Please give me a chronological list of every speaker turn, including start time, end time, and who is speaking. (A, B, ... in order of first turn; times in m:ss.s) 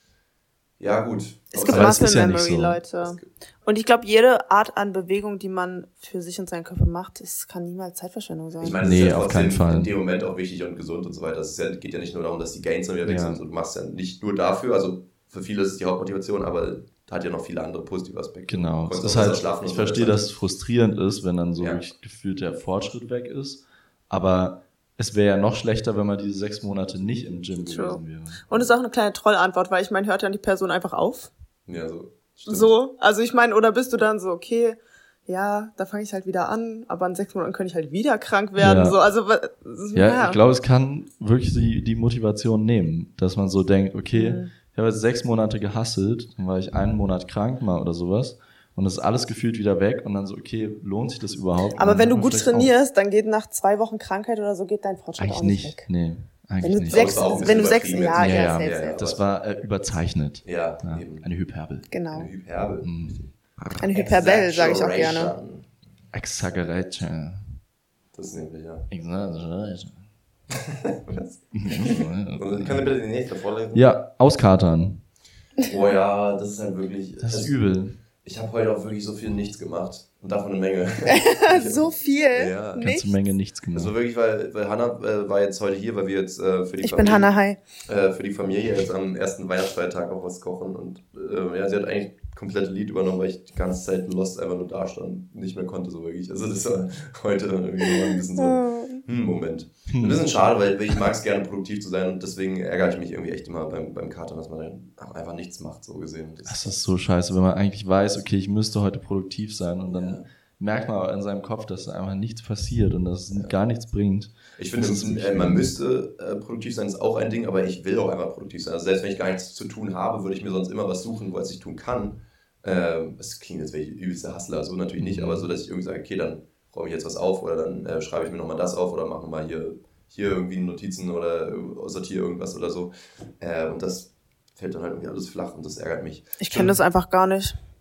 0:00.8-0:02.1 A
0:01.5-0:08.8 B
0:01.7-0:02.8 C
0:03.0-0:03.3 A
0:08.6-0:20.3 A
0:08.8-0:09.9 C
0:13.0-0:13.4 C
0:18.5-0:28.5 C
0:27.6-0:31.3 B
0:31.7-0:32.7 A
0:32.5-0:40.4 B
0:38.6-0:39.0 C
0:39.9-0:52.7 C
0:44.1-0:44.5 B
0:51.8-0:55.9 B
0:55.2-0:57.4 C
0:56.6-0:59.0 B
0:56.9-0:59.2 A
0:58.2-1:01.9 C
1:00.4-1:01.3 A
1:01.9-1:02.3 B
1:02.1-1:05.7 A
1:02.8-1:03.8 C
1:03.8-1:05.4 B
1:06.1-1:07.6 C
1:08.1-1:08.9 A
1:08.9-1:10.0 C
1:10.7-1:13.9 A
1:11.5-1:12.9 C
1:13.7-1:15.0 C
1:15.6-1:22.9 A
1:17.2-1:18.0 C
1:21.1-1:23.2 B
1:22.8-1:23.9 C
1:23.7-1:27.3 A
1:26.8-1:27.6 B
1:27.8-1:46.8 A
1:38.3-1:39.0 B
1:39.9-1:40.4 C
1:46.5-1:55.7 C
1:49.9-1:50.2 A
1:54.6-2:16.8 A
2:05.0-2:05.5 C
2:16.4-2:17.6 B